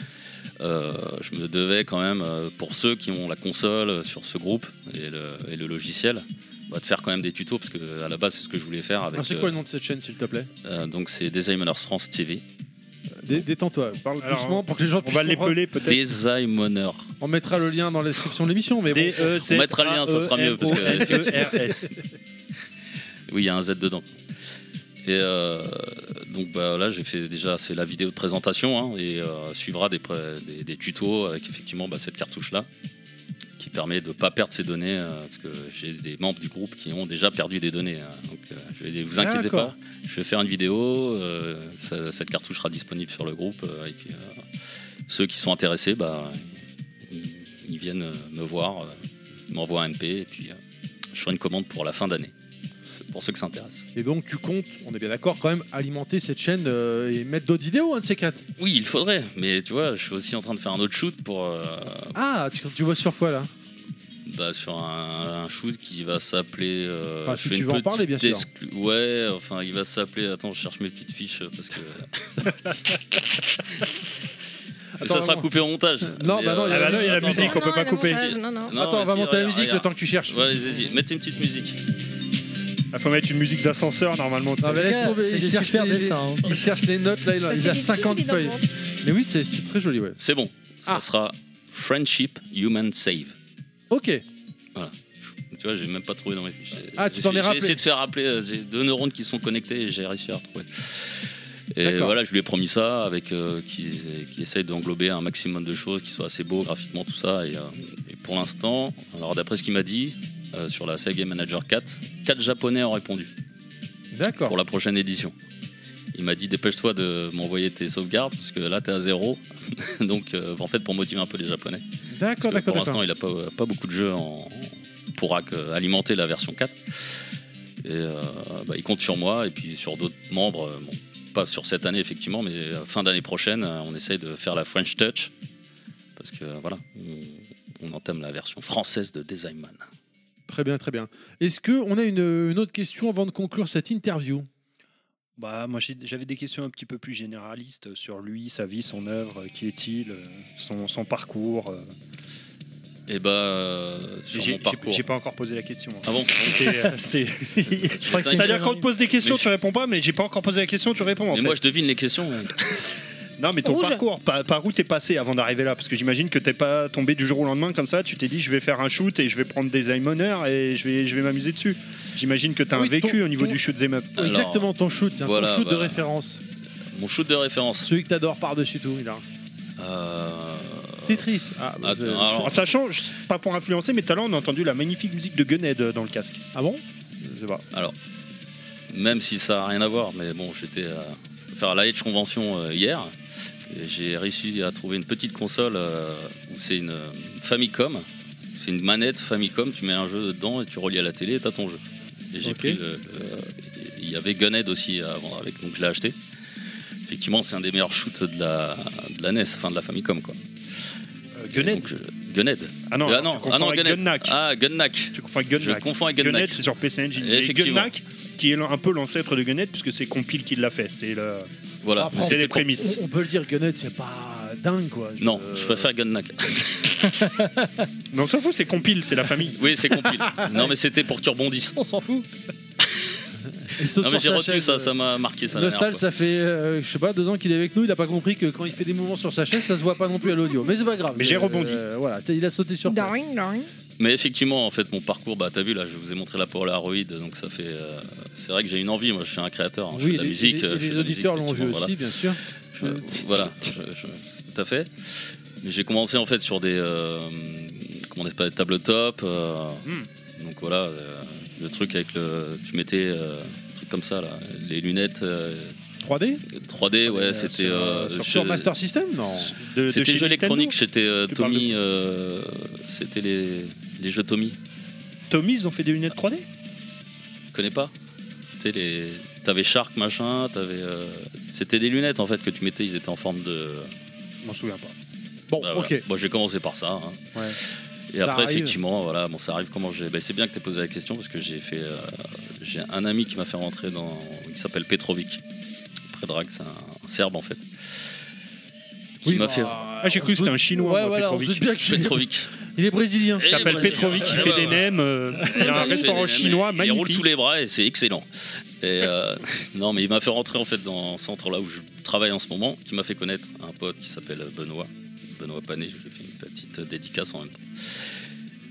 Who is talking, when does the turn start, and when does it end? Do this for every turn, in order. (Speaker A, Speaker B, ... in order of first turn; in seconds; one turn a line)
Speaker A: 0.6-9.5
Speaker B: 9.1-10.5
Speaker A: 10.6-12.4
Speaker B: 13.2-15.6
Speaker C: 14.1-16.0
Speaker A: 15.8-17.1
Speaker B: 17.2-19.3
Speaker C: 18.9-21.9
Speaker A: 19.4-21.6
Speaker B: 20.6-21.6
Speaker A: 23.3-24.1
Speaker A: 25.0-32.7
Speaker A: 33.6-44.4
Speaker B: 39.2-39.7
Speaker A: 45.1-49.0
Speaker A: 49.5-50.6
Speaker A: 51.1-52.3
Speaker A: 52.9-53.9
Speaker B: 54.0-58.4
Speaker A: 58.6-62.1
Speaker B: 62.1-63.5
Speaker A: 64.2-72.8
Speaker B: 67.2-68.5
Speaker B: 75.0-75.5
Speaker A: 75.0-81.8
Speaker B: 76.0-77.7
Speaker C: 76.7-78.3
Speaker D: 77.3-78.7
Speaker B: 78.7-80.9
Speaker C: 82.9-85.0
Speaker B: 84.6-90.2
Speaker E: 84.7-86.4
Speaker D: 87.5-88.6
Speaker A: 90.2-93.3
Speaker B: 93.9-94.2
Speaker A: 94.7-113.3
Speaker B: 96.9-97.8
Speaker B: 101.8-102.1
Speaker B: 114.1-114.6
Speaker A: 114.4-115.3
Speaker A: 116.1-121.8
Speaker B: 122.1-123.0
Speaker A: 122.4-127.2
Speaker A: 127.8-135.3
Speaker A: 136.2-139.8
Speaker B: 140.5-144.5
Speaker C: 145.4-151.9
Speaker A: 153.1-155.1
Speaker C: 154.3-161.6
Speaker A: 156.0-156.9
Speaker A: 158.0-158.6
Speaker E: 158.0-158.9
Speaker A: 159.2-159.5
Speaker A: 161.3-162.8
Speaker C: 163.4-174.1
Speaker D: 163.6-164.0
Speaker B: 172.7-173.6
Speaker B: 174.2-176.4
Speaker A: 174.2-174.7
Speaker A: 175.2-176.1
Speaker A: 176.9-177.9
Speaker B: 177.8-179.2
Speaker A: 179.8-181.2
Speaker B: 181.1-182.6
Speaker A: 181.8-182.6
Speaker C: 182.4-186.4
Speaker B: 186.5-187.6
Speaker A: 188.9-193.1
Speaker A: 193.7-206.2
Speaker B: 202.4-202.8
Speaker A: 207.1-210.4
Speaker C: 211.4-211.9
Speaker A: 211.5-216.6
Speaker C: 212.9-214.4
Speaker C: 215.1-221.5
Speaker A: 217.2-217.9
Speaker A: 221.8-222.9
Speaker B: 222.0-225.9
Speaker C: 222.1-223.0
Speaker A: 225.2-227.2
Speaker C: 228.1-229.6
Speaker A: 229.6-231.8
Speaker B: 230.0-230.7
Speaker E: 231.8-232.2
Speaker A: 232.8-233.1
Speaker B: 233.7-234.9
Speaker A: 234.0-236.0
Speaker B: 235.5-243.2
Speaker C: 241.1-241.8
Speaker D: 242.8-243.7
Speaker A: 244.0-265.8
Speaker B: 249.9-253.7
Speaker B: 266.0-266.4
Speaker A: 266.5-268.7
Speaker B: 267.0-269.5
Speaker C: 269.6-270.8
Speaker A: 269.9-274.6
Speaker C: 271.3-271.7
Speaker C: 275.3-276.4
Speaker A: 277.5-277.9
Speaker A: 278.6-283.9
Speaker C: 284.4-284.9
Speaker B: 285.5-286.0
Speaker A: 285.6-287.6
Speaker A: 288.1-295.4
Speaker B: 288.2-288.8
Speaker A: 296.1-298.1
Speaker A: 299.2-299.8
Speaker B: 299.2-304.6
Speaker C: 300.0-301.7
Speaker A: 301.9-302.5
Speaker A: 303.4-304.8
Speaker C: 303.4-307.2
Speaker A: 305.5-318.1
Speaker D: 305.6-306.3